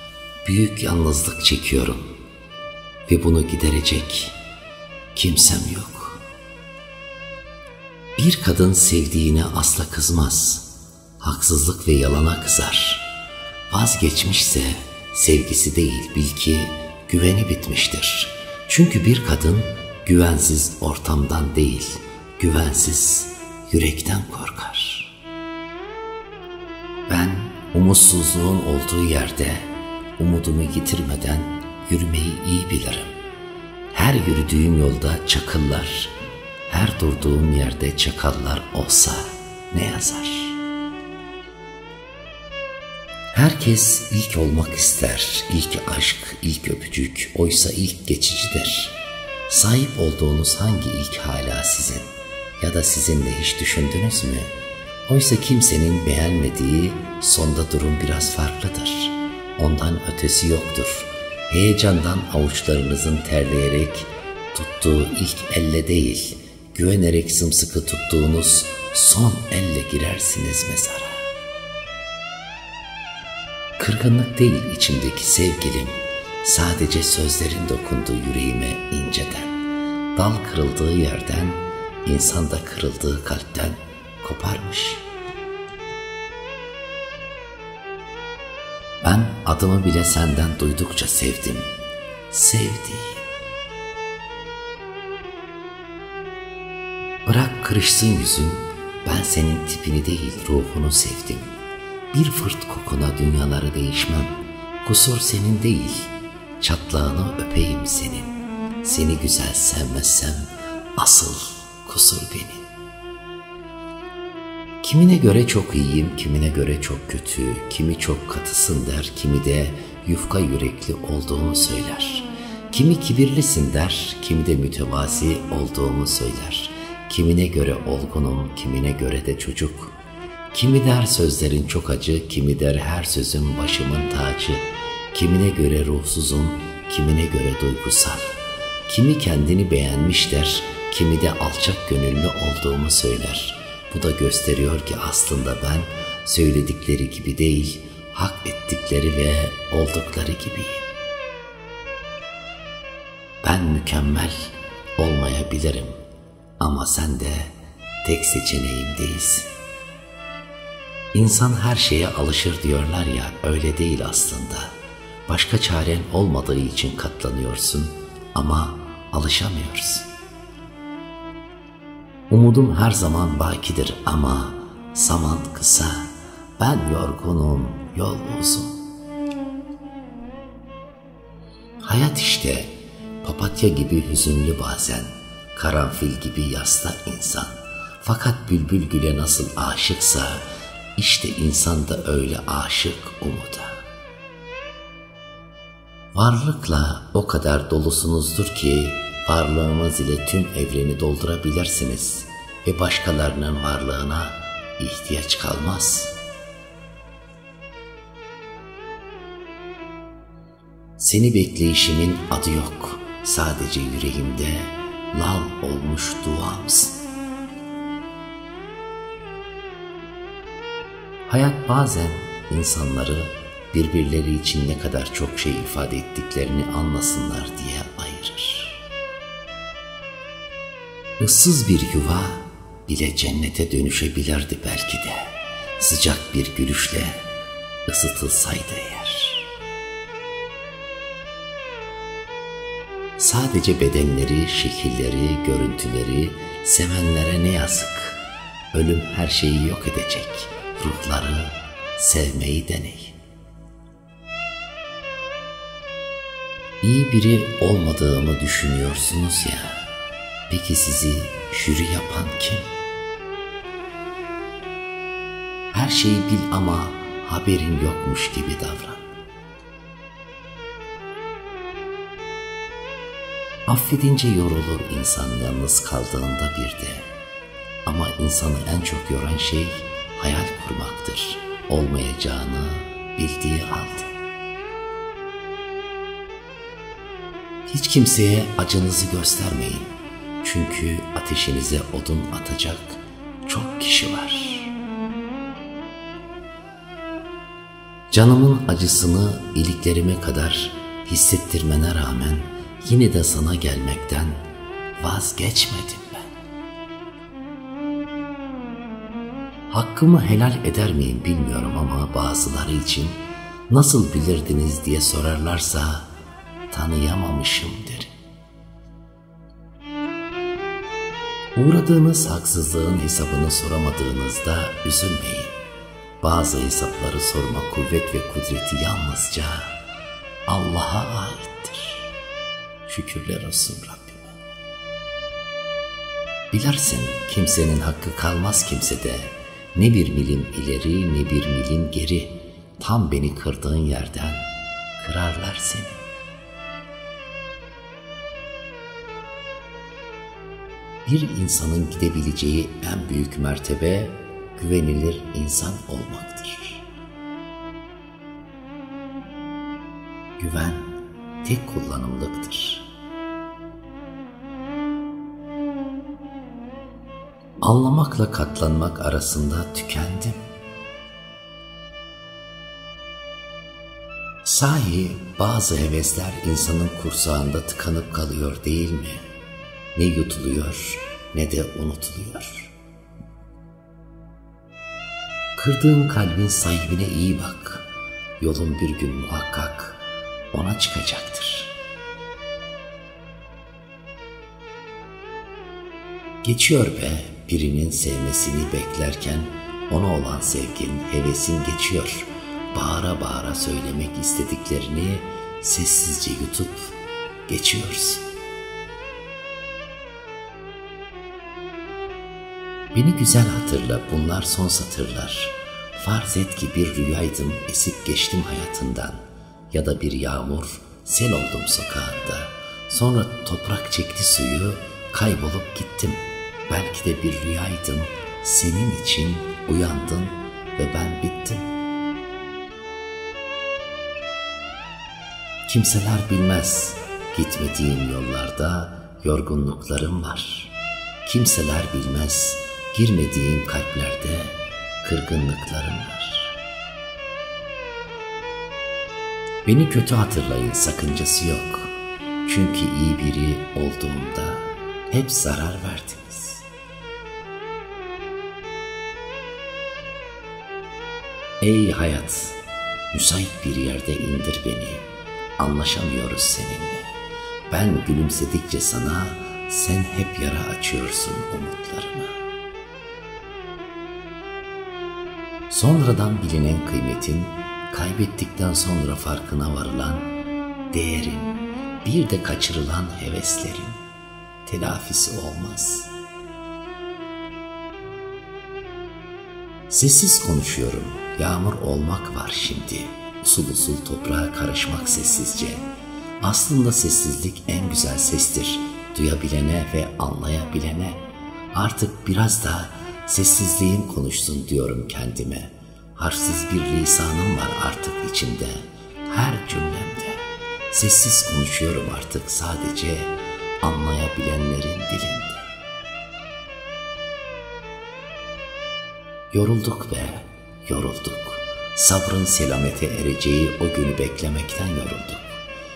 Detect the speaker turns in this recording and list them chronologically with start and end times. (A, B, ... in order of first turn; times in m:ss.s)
0:00.4-0:02.2 A
0:03.1-0:04.4 A
0:05.2-0:06.2 A
0:08.2-0:10.7 A
0:11.2-0:13.1 A
0:13.7-0:25.1 A
0:27.1-0:33.1 A
0:33.9-0:36.1 A
0:36.7-0:40.6 A
0:43.3-0:49.0 A
0:49.5-0:54.5 A
0:55.1-1:11.3 A
1:13.8-1:19.6 A
1:20.2-1:25.0 A
1:29.0-1:31.7 A
1:32.3-1:33.2 A
1:37.2-1:41.6 A
1:42.1-1:52.7 A
1:54.8-2:09.9 A
2:10.5-2:30.9 A
2:33.4-2:36.0 A
2:36.6-2:39.5 A
2:41.1-2:44.8 A
2:45.3-2:50.1 A
2:52.3-2:58.8 A
3:01.8-3:13.8 A
3:16.1-3:26.1 A
3:31.0-3:37.0 A
3:41.3-3:48.8 A
3:51.2-3:57.2 A
3:57.9-3:59.5 A
4:03.2-4:08.2 A
4:08.7-4:13.2 A
4:16.8-4:19.9 A
4:20.5-4:22.7 A
4:25.7-4:29.1 A
4:33.7-4:37.1 A
4:37.8-4:44.1 A
4:47.7-4:54.7 A
4:58.1-5:04.4 A
5:05.0-5:06.4 A
5:09.7-5:16.1 A
5:16.7-5:18.1 A
5:21.6-5:25.6 A
5:26.2-5:29.8 A
5:30.5-5:32.1 A
5:32.9-5:34.4 A
5:36.5-5:46.0 A
5:51.0-5:56.8 A
6:00.4-6:02.9 A
6:07.6-6:10.4 A
6:14.4-6:19.3 A
6:20.0-6:22.7 A
6:25.6-6:27.9 A
6:28.4-6:31.7 A
6:36.4-6:47.0 A
6:47.5-6:48.2 A
6:52.9-7:11.7 A
7:15.7-7:20.7 A
7:21.2-7:26.6 A
7:29.6-7:31.9 A
7:32.4-7:36.7 A
7:41.6-7:42.6 A
7:43.1-7:45.1 A
7:45.6-7:47.1 A
7:47.7-7:52.4 A
7:55.7-8:00.3 A
8:00.9-8:04.0 A
8:04.6-8:06.1 A
8:09.9-8:15.9 A
8:16.4-8:35.7 A
8:39.5-8:45.6 A